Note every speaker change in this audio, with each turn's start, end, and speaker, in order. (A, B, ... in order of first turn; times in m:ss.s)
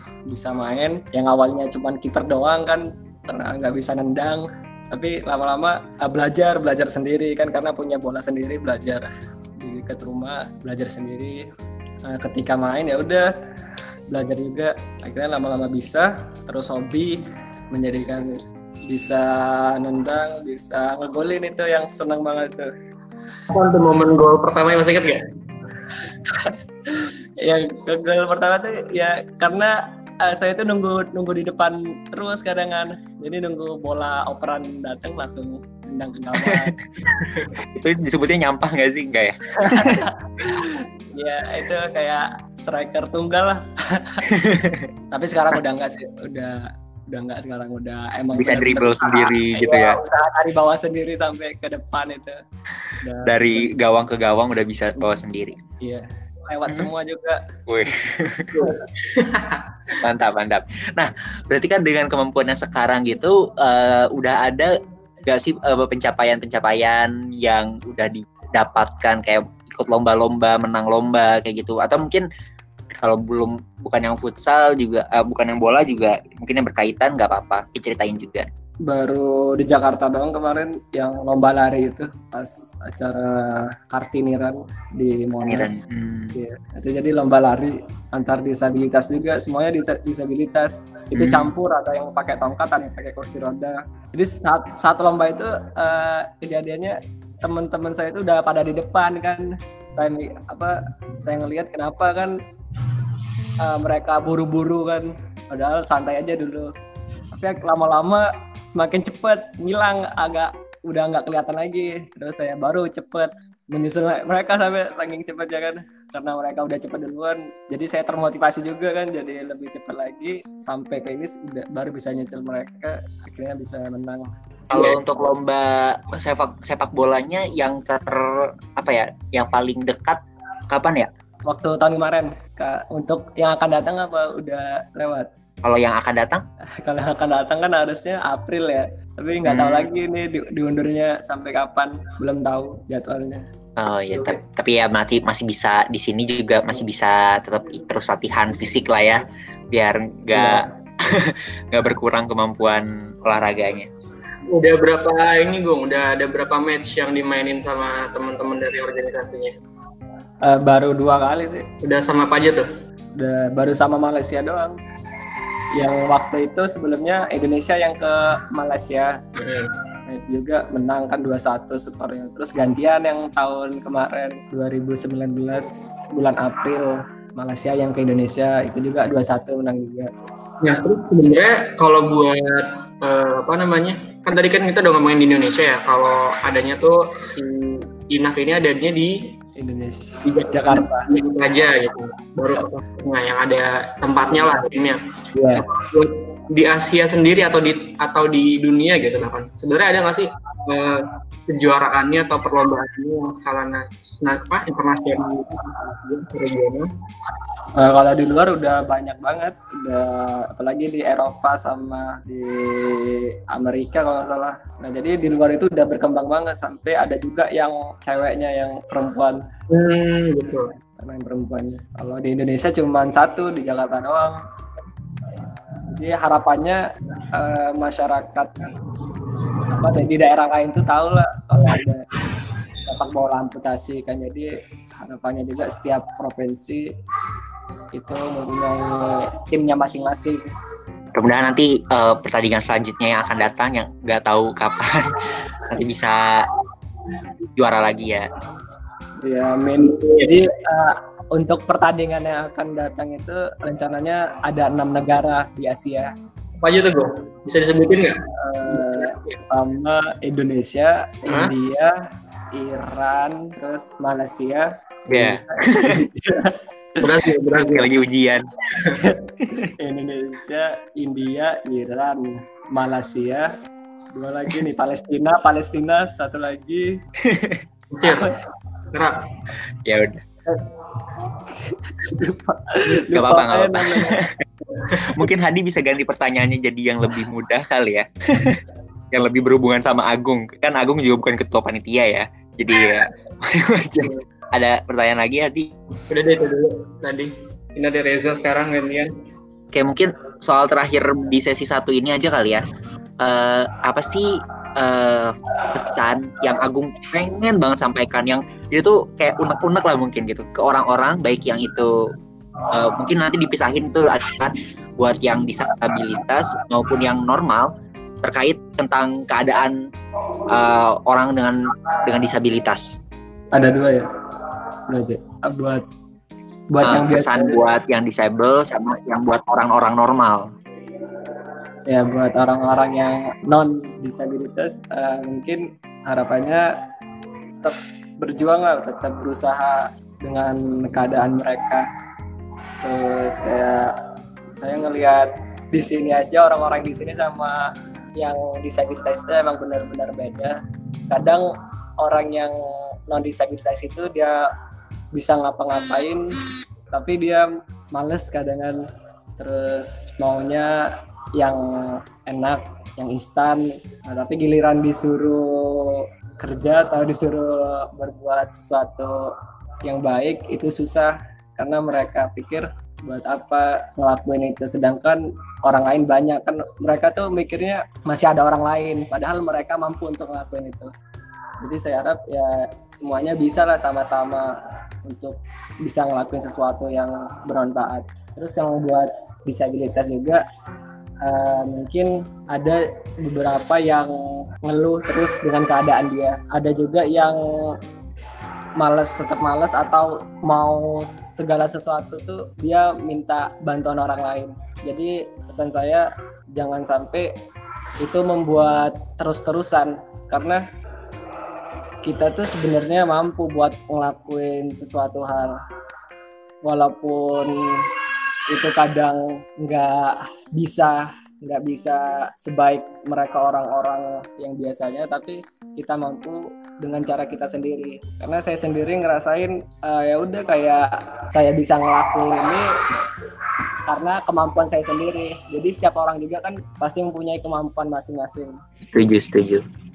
0:00.3-0:09.1 A
0:09.6-0:11.4 A
0:12.1-0:13.3 A
0:14.1-0:17.2 A
0:17.7-0:18.4 A
0:18.9-0:22.7 A
0:23.5-0:25.3 B
0:26.2-0:36.7 A
0:37.7-0:40.0 C
0:39.6-0:44.2 A
0:44.3-0:44.9 C
0:45.1-0:46.6 A
0:47.1-0:52.4 A
0:48.4-0:50.0 C
0:53.0-0:53.7 A
0:53.2-0:55.6 C
0:55.8-0:57.4 A
0:57.7-0:58.7 C
0:58.6-1:00.0 B
1:00.0-1:04.7 C
1:05.3-1:12.3 C
1:13.0-1:18.5 C
1:18.9-1:25.8 A
1:25.4-1:26.4 C
1:26.3-1:42.4 A
1:31.1-1:31.5 C
1:43.6-1:46.7 A
1:47.3-2:04.3 A
2:04.7-2:11.1 C
2:11.5-2:15.3 A
2:15.6-2:16.4 C
2:16.8-2:23.4 A
2:19.4-2:19.9 C
2:23.8-2:33.9 C
2:30.3-2:30.7 A
2:34.5-2:39.6 B
2:40.5-2:41.7 A
2:41.8-2:42.7 B
2:43.2-2:44.8 A
2:45.8-2:49.2 A
2:49.4-2:49.7 B
2:50.1-3:00.1 A
3:00.6-3:09.3 B
3:09.6-3:11.1 A
3:10.2-3:15.0 B
3:15.3-3:15.7 A
3:15.6-3:26.9 B
3:27.8-3:39.4 A
3:39.7-3:40.7 B
3:41.0-3:44.4 A
3:45.9-3:46.8 A
3:47.3-3:48.6 A
3:49.7-3:52.0 A
3:52.9-3:56.8 A
3:57.9-4:00.4 A
4:01.2-4:05.1 C
4:05.7-4:06.5 C
4:07.6-4:08.3 C
4:09.2-4:16.1 A
4:09.8-4:10.3 B
4:16.6-4:19.4 B
4:18.4-4:21.9 A
4:21.3-4:21.5 B
4:22.5-4:26.6 A
4:25.1-4:26.1 C
4:27.0-4:27.9 B
4:27.6-4:28.5 C
4:28.8-4:29.0 B
4:29.8-4:33.5 A
4:34.2-4:36.9 A
4:37.2-4:37.6 C
4:37.9-4:38.3 B
4:38.9-4:39.3 B
4:39.9-4:40.2 C
4:41.4-4:44.2 A
4:43.1-4:44.3 C
4:45.1-4:55.7 C
4:56.1-4:59.1 B
4:59.7-5:02.6 C
5:03.2-5:11.9 C
5:12.7-5:17.7 C
5:18.2-5:19.8 C
5:20.5-5:22.9 C
5:23.5-5:24.1 A
5:24.9-5:25.9 A
5:26.7-5:27.6 A
5:26.8-5:30.5 C
5:31.9-5:36.6 A
5:37.6-5:41.9 A
5:42.8-5:43.9 A
5:44.6-5:47.6 A
5:48.2-5:52.6 A
5:53.1-5:54.4 A
5:55.1-5:56.2 A
5:56.9-5:58.8 A
5:59.4-6:00.7 A
6:01.4-6:09.3 A
6:09.8-6:20.9 A
6:21.6-6:24.5 A
6:25.1-6:30.4 A
6:31.2-6:37.4 A
6:38.8-6:47.3 A
6:48.0-6:50.6 A
6:52.0-6:55.6 A
6:56.7-6:57.8 A
6:58.5-7:12.6 A
7:13.9-7:18.6 A
7:18.9-7:19.6 C